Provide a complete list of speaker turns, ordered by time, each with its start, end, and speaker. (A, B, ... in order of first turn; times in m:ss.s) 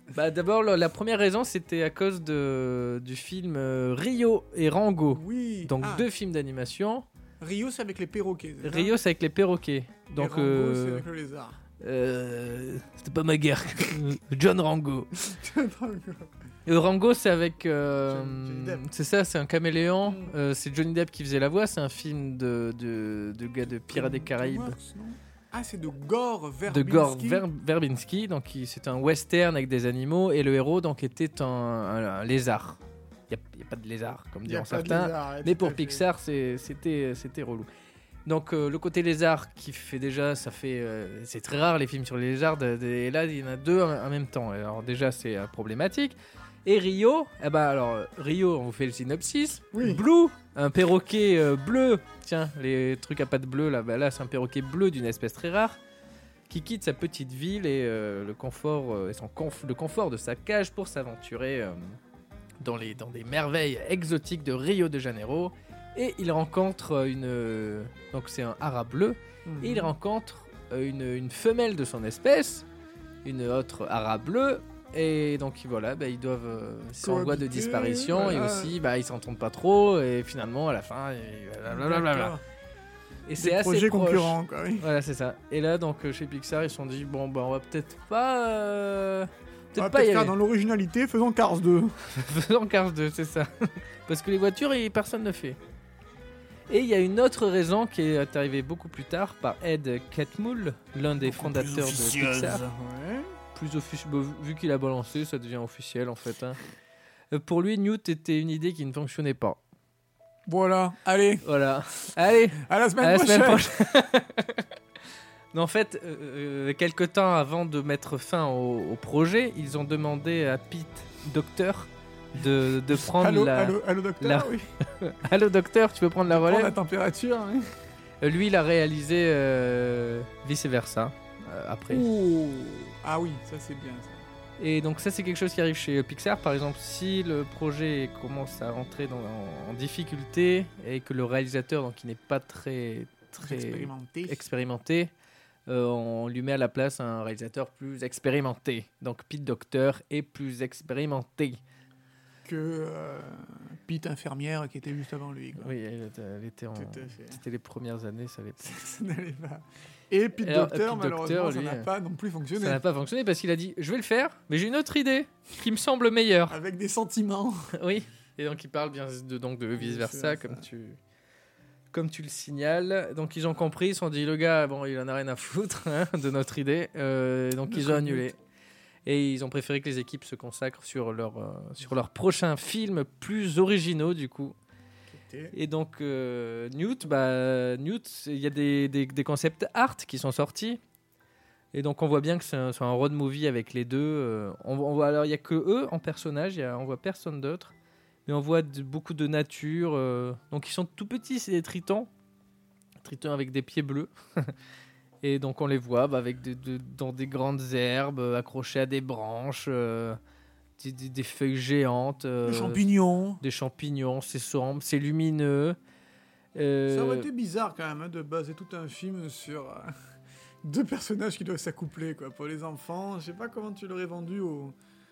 0:00.1-0:07.0 A
0:05.1-0:06.1 B
0:07.4-0:08.9 B
0:08.6-0:11.0 A
0:10.2-0:11.6 B
0:11.8-0:15.1 A
0:15.2-0:16.3 B
0:16.7-0:24.8 A
0:18.1-0:18.8 B
0:20.0-0:20.4 B
0:23.8-0:27.4 B
0:26.7-0:37.7 A
0:34.5-0:36.0 B
0:38.3-0:55.8 A
0:49.7-0:50.0 B
0:56.5-1:02.0 A
1:02.6-1:12.7 A
1:09.5-1:09.9 B
1:13.2-1:22.4 A
1:17.0-1:18.8 B
1:21.6-1:22.4 B
1:23.3-1:30.4 A
1:23.4-1:24.9 B
1:29.8-1:31.9 B
1:32.1-1:33.5 A
1:34.1-1:35.6 A
1:36.7-1:42.6 A
1:41.2-1:43.3 B
1:43.6-1:46.6 A
1:47.3-1:49.6 A
1:50.5-1:51.5 B
1:51.4-1:54.7 A
1:52.6-1:53.8 B
1:55.5-2:06.8 A
2:02.9-2:04.6 B
2:06.3-2:07.6 B
2:08.2-2:12.1 A
2:11.9-2:14.2 B
2:14.6-2:25.1 A
2:23.4-2:24.4 B
2:25.7-2:31.6 A
2:32.4-2:35.7 B
2:35.6-2:38.8 A
2:36.8-2:37.4 B
2:38.6-2:42.8 B
2:40.4-2:41.9 A
2:42.6-2:46.6 A
2:46.5-2:47.6 B
2:47.7-2:51.0 A
2:49.8-2:50.6 B
2:51.9-2:58.4 A
2:57.7-2:58.3 B
2:59.1-3:04.6 A
3:05.1-3:05.5 B
3:05.5-3:10.8 A
3:11.7-3:17.7 A
3:18.3-3:22.1 A
3:23.0-3:24.5 A
3:25.2-3:30.2 A
3:30.8-3:32.8 A
3:32.4-3:33.4 B
3:33.4-3:35.8 A
3:36.6-3:37.3 A
3:36.9-3:39.9 B
3:40.6-3:44.8 B